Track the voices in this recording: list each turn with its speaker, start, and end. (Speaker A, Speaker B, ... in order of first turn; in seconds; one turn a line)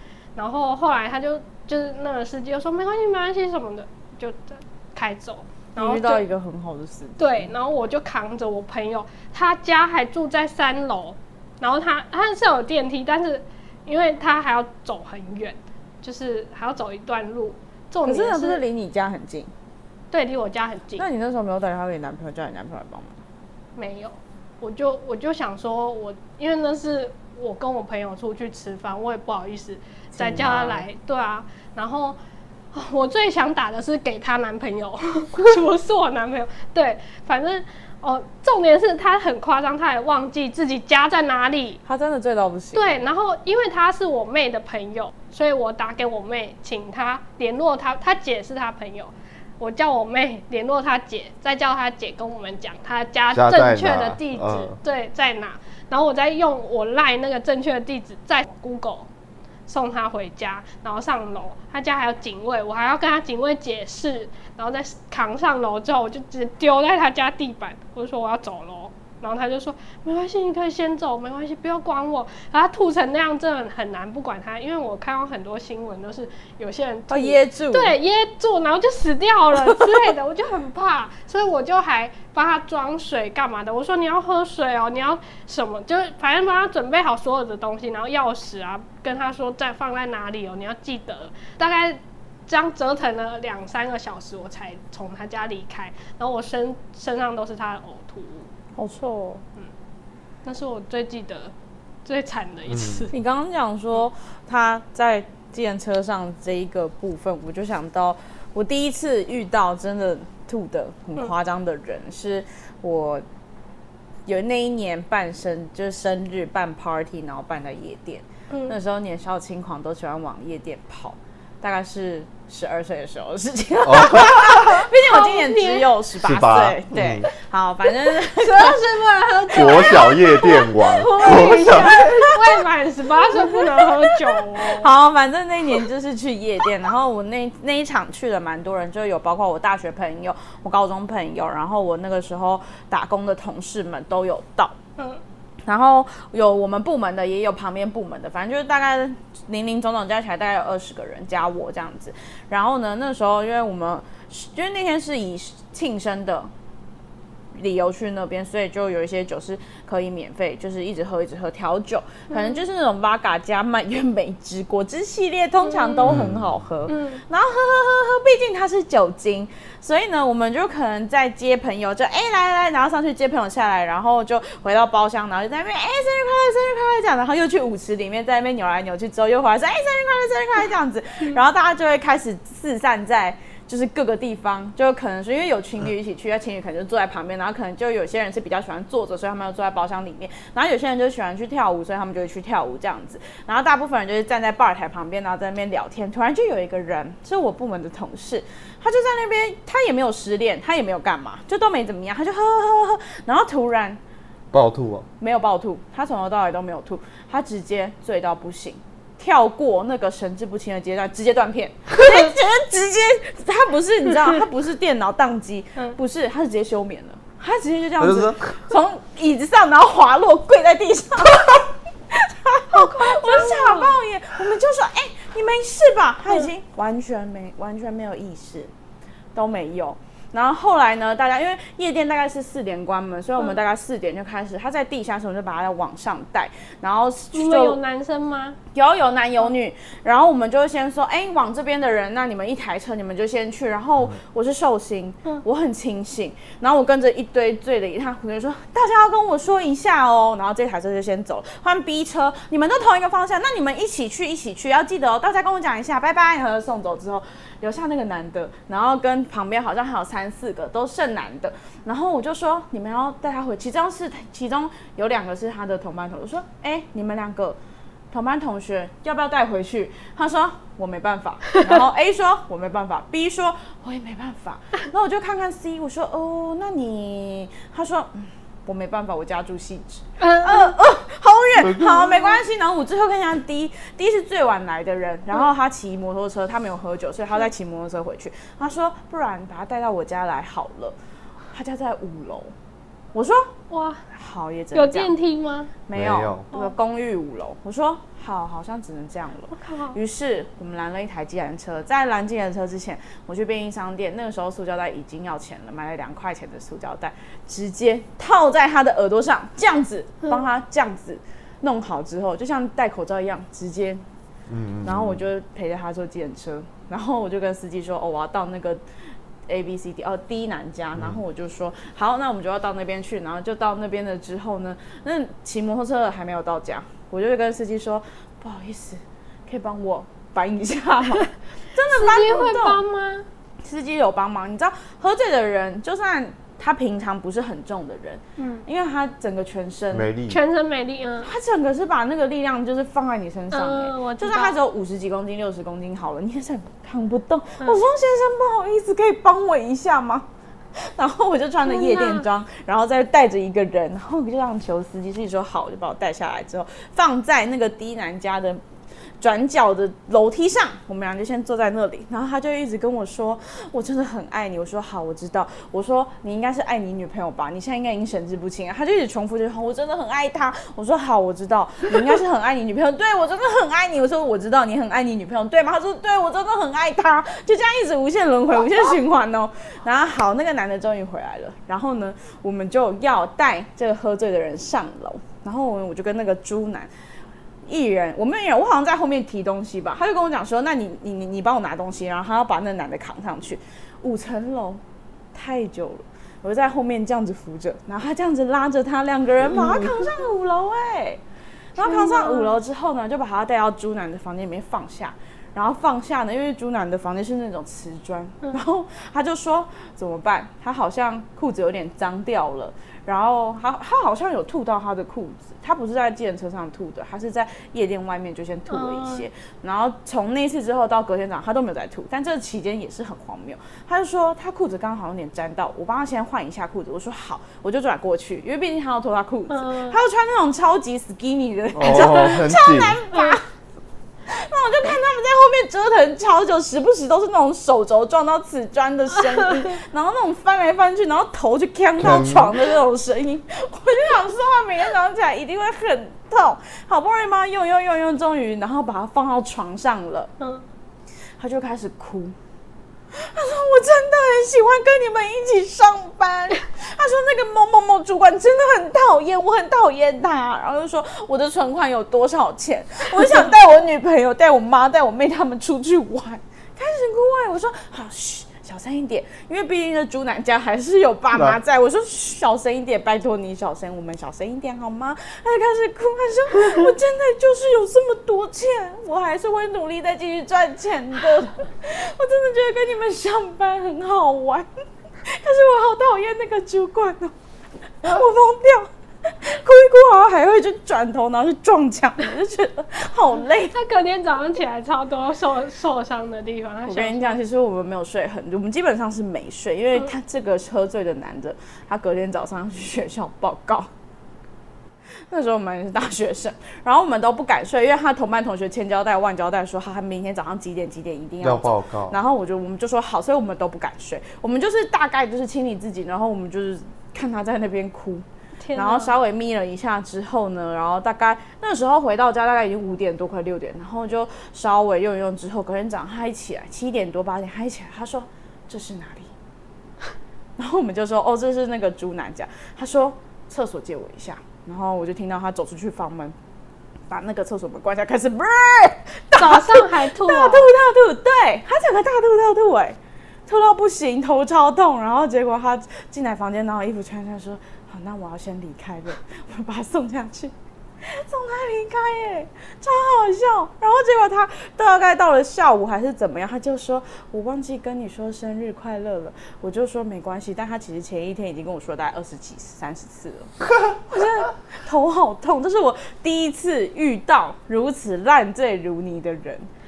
Speaker A: 0.3-6.2
Speaker B: 5.8-7.5
Speaker A: 7.2-18.6
Speaker B: 18.0-19.5
Speaker A: 20.1-21.1
Speaker B: 21.0-23.2
Speaker A: 23.8-32.2
Speaker B: 30.1-30.9
Speaker A: 32.7-41.8
Speaker B: 41.8-43.0
Speaker A: 42.7-59.1
Speaker C: 53.3-54.8
Speaker A: 59.7-98.5
Speaker B: 77.1-78.0
Speaker B: 79.5-80.1
Speaker B: 98.8-99.4
Speaker A: 100.4-101.5
Speaker A: 102.0-103.1
Speaker C: 102.7-103.0
Speaker B: 103.1-113.2
Speaker B: 114.2-128.9
Speaker A: 118.5-118.8
Speaker C: 123.8-124.8
Speaker A: 125.0-125.9
Speaker C: 126.2-127.3
Speaker A: 128.0-134.9
Speaker B: 129.5-132.6
Speaker C: 129.5-132.3
Speaker B: 133.2-144.8
Speaker A: 145.0-145.2
Speaker B: 145.6-156.5
Speaker B: 157.5-204.0
Speaker A: 162.3-162.6
Speaker A: 165.6-166.2
Speaker C: 166.0-166.6
Speaker A: 166.9-167.2
Speaker C: 204.5-205.1
Speaker B: 205.2-228.7
Speaker C: 218.0-218.6
Speaker A: 222.7-223.9
Speaker B: 229.3-237.8
Speaker A: 237.3-238.6
Speaker B: 238.7-267.6
Speaker B: 268.1-291.0
Speaker A: 280.2-280.7
Speaker C: 281.6-282.1
Speaker B: 291.5-292.5
Speaker B: 293.1-293.5
Speaker A: 293.7-294.0
Speaker B: 294.1-295.1
Speaker A: 294.7-295.7
Speaker B: 295.9-314.0
Speaker C: 295.9-296.4
Speaker A: 299.5-300.0
Speaker C: 314.5-315.2
Speaker B: 314.8-318.8
Speaker B: 319.5-332.8
Speaker A: 331.9-333.2
Speaker B: 333.6-340.1
Speaker A: 338.4-338.6
Speaker C: 339.9-340.4
Speaker A: 340.3-341.3
Speaker B: 341.2-358.6
Speaker A: 343.5-344.6
Speaker A: 351.6-352.2
Speaker B: 359.2-386.9
Speaker B: 387.6-394.8
Speaker B: 395.3-401.2
Speaker B: 401.7-433.5
Speaker A: 401.8-402.6
Speaker A: 418.7-419.3
Speaker A: 429.5-430.0
Speaker C: 431.8-433.0
Speaker A: 433.1-433.4
Speaker B: 434.3-450.3
Speaker A: 439.4-439.7
Speaker C: 442.0-442.7
Speaker A: 450.4-450.6
Speaker B: 451.4-452.3
Speaker B: 453.1-484.7
Speaker C: 471.3-471.6
Speaker B: 485.2-487.3
Speaker B: 488.0-493.8
Speaker A: 493.7-497.4
Speaker B: 496.9-503.9
Speaker B: 505.3-529.3
Speaker C: 511.4-512.2
Speaker A: 518.6-519.1
Speaker B: 530.6-536.4
Speaker B: 537.1-569.7
Speaker A: 539.3-540.7